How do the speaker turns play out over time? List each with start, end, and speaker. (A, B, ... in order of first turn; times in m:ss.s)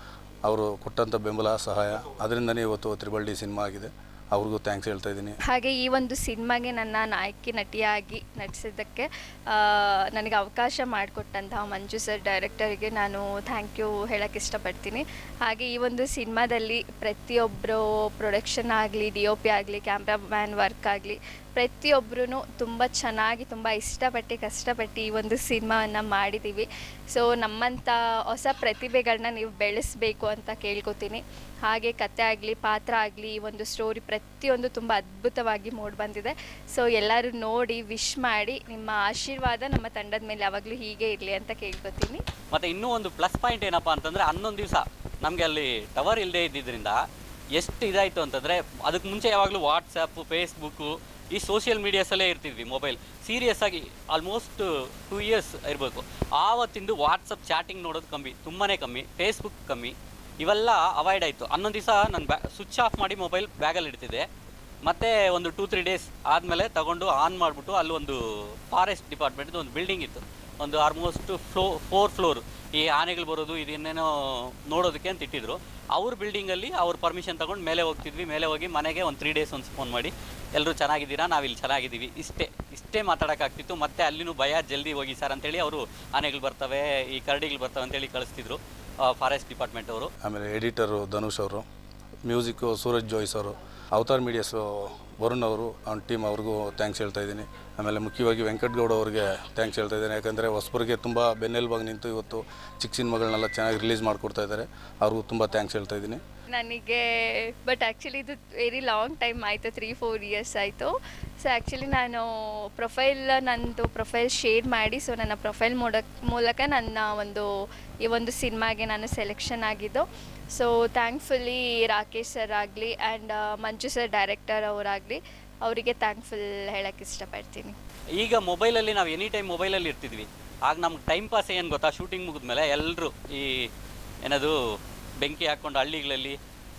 0:00.4-0:05.4 A
0:05.4-0:42.2 B
0:42.5-0:47.0 C
0:47.5-1:04.2 C
1:04.8-1:30.1 C
1:30.2-1:31.6 A
1:32.2-1:46.2 A
1:46.5-1:57.5 B
1:58.0-2:07.7 B
2:08.2-2:13.7 C
2:14.2-2:14.6 C
2:15.2-2:16.4 C